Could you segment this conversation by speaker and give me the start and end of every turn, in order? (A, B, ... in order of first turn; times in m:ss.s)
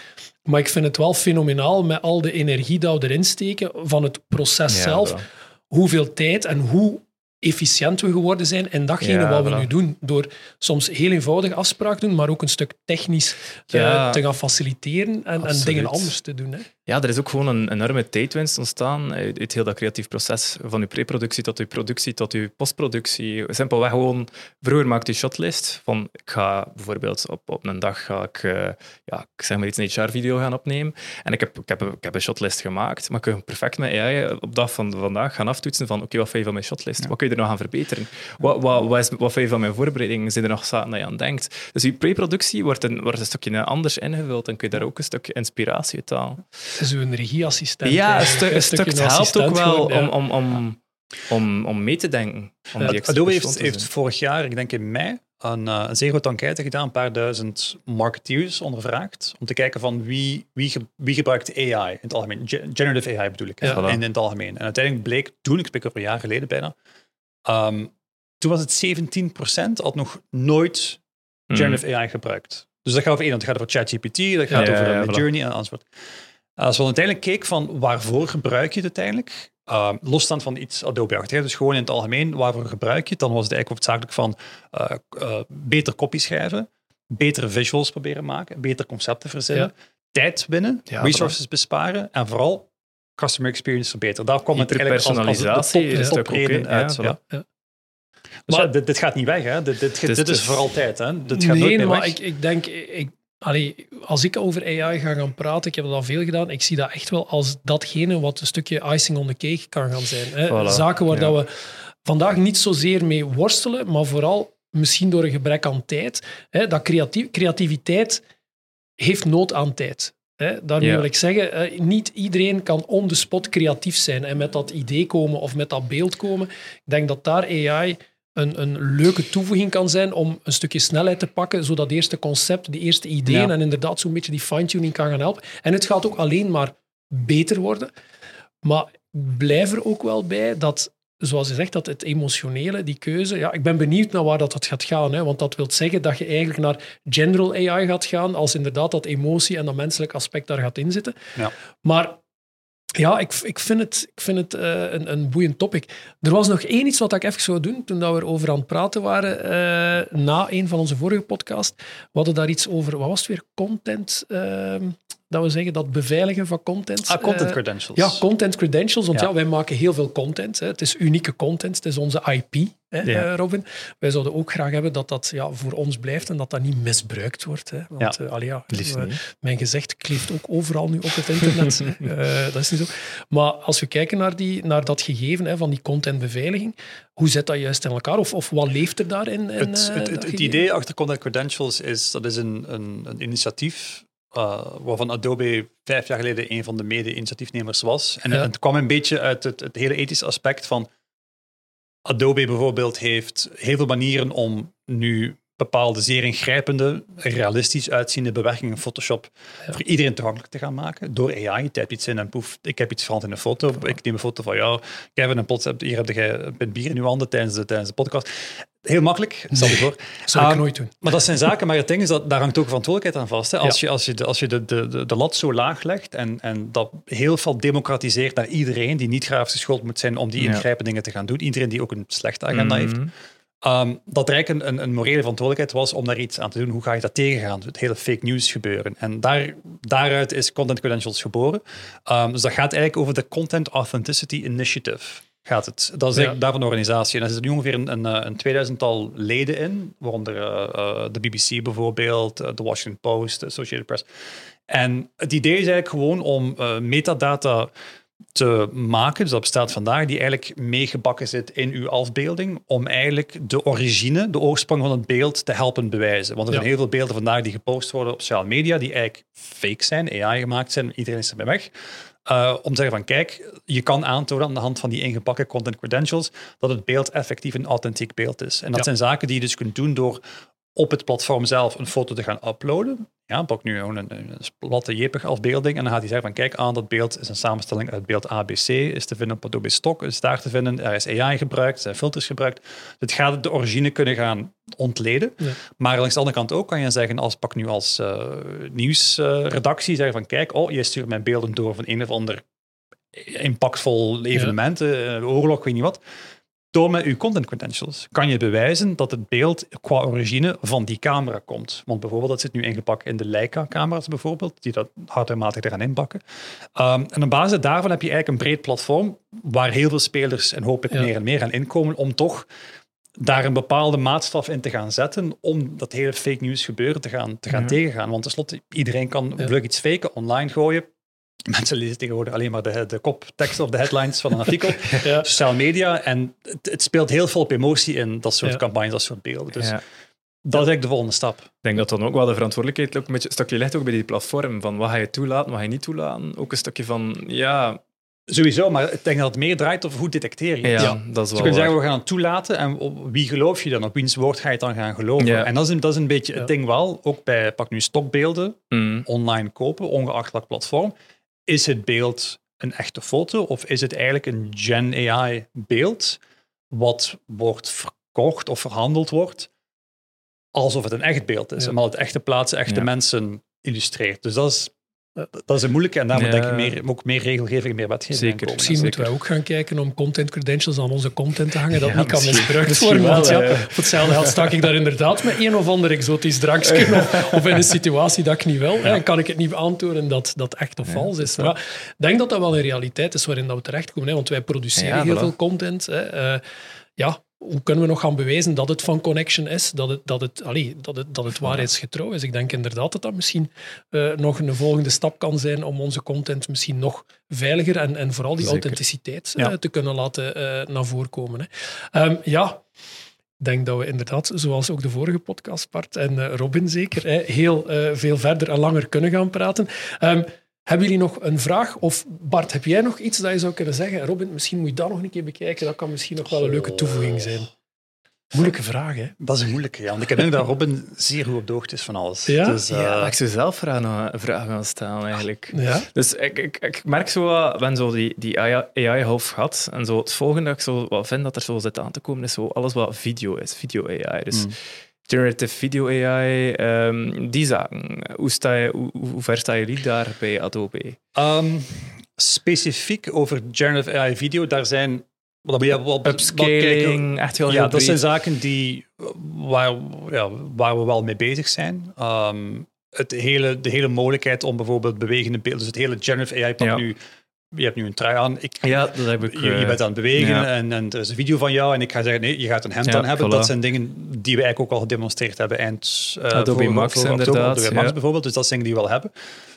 0:00.5-0:16.7 A
0:04.7-0:05.2 B
0:09.0-0:09.7 B
0:13.7-0:14.2 B
0:15.4-0:16.1 B
0:16.9-0:46.4 B
0:46.8-0:50.1 A
0:47.8-0:53.9 B
0:52.8-1:06.8 C
1:03.7-1:04.0 B
1:07.5-1:11.0 C
1:11.5-1:11.8 B
1:11.5-1:15.9 C
1:14.5-1:15.2 B
1:16.6-1:37.2 C
1:30.9-1:31.3 B
1:34.5-1:37.2 B
1:38.5-1:42.2 C
1:40.1-1:40.7 B
1:41.3-1:51.5 A
1:50.5-1:51.3 B
1:52.0-1:58.2 A
1:59.0-2:17.9 A
2:13.3-2:13.5 B
2:18.6-2:31.3 A
2:31.8-2:32.2 A
2:33.0-3:10.6 A
2:47.1-2:48.2 C
2:58.7-2:59.1 B
3:09.6-3:20.9 C
3:22.1-3:53.0 C
3:39.5-3:41.0 A
3:50.4-3:50.6 B
3:52.5-3:53.1 B
3:53.6-4:14.1 C
4:14.7-4:17.7 C
4:18.4-4:31.7 C
4:32.2-4:40.2 C
4:40.8-5:02.4 C
5:03.1-5:06.0 C
5:06.7-5:16.2 C
5:16.8-5:22.5 C
5:23.2-5:30.9 C
5:31.5-5:39.8 C
5:35.0-5:35.3 A
5:40.4-5:41.5 C
5:41.6-5:47.8 B
5:48.3-6:00.9 C
5:50.6-5:51.8 B
5:55.2-5:55.5 B
5:58.7-5:59.1 B
6:01.5-6:06.2 C
6:06.7-6:09.5 C
6:10.6-6:14.7 C
6:15.3-6:18.9 C
6:16.1-6:16.7 B
6:18.1-6:19.1 B
6:18.6-6:36.4 A
6:21.8-6:24.6 B
6:26.8-6:27.6 B
6:30.9-6:31.5 B
6:34.8-6:35.3 B
6:37.0-6:52.6 A
6:41.4-6:41.7 B
6:48.4-6:48.8 B
6:53.4-7:07.5 A
7:06.3-7:07.4 C
7:08.3-7:09.2 A
7:09.2-7:13.2 C
7:12.3-7:12.7 A
7:12.8-7:31.0 B
7:15.5-7:15.9 A
7:31.2-7:47.0 C
7:36.0-7:38.0 B
7:47.5-7:59.1 C
7:48.6-7:50.5 B
7:52.8-7:53.5 B
7:56.3-7:57.9 B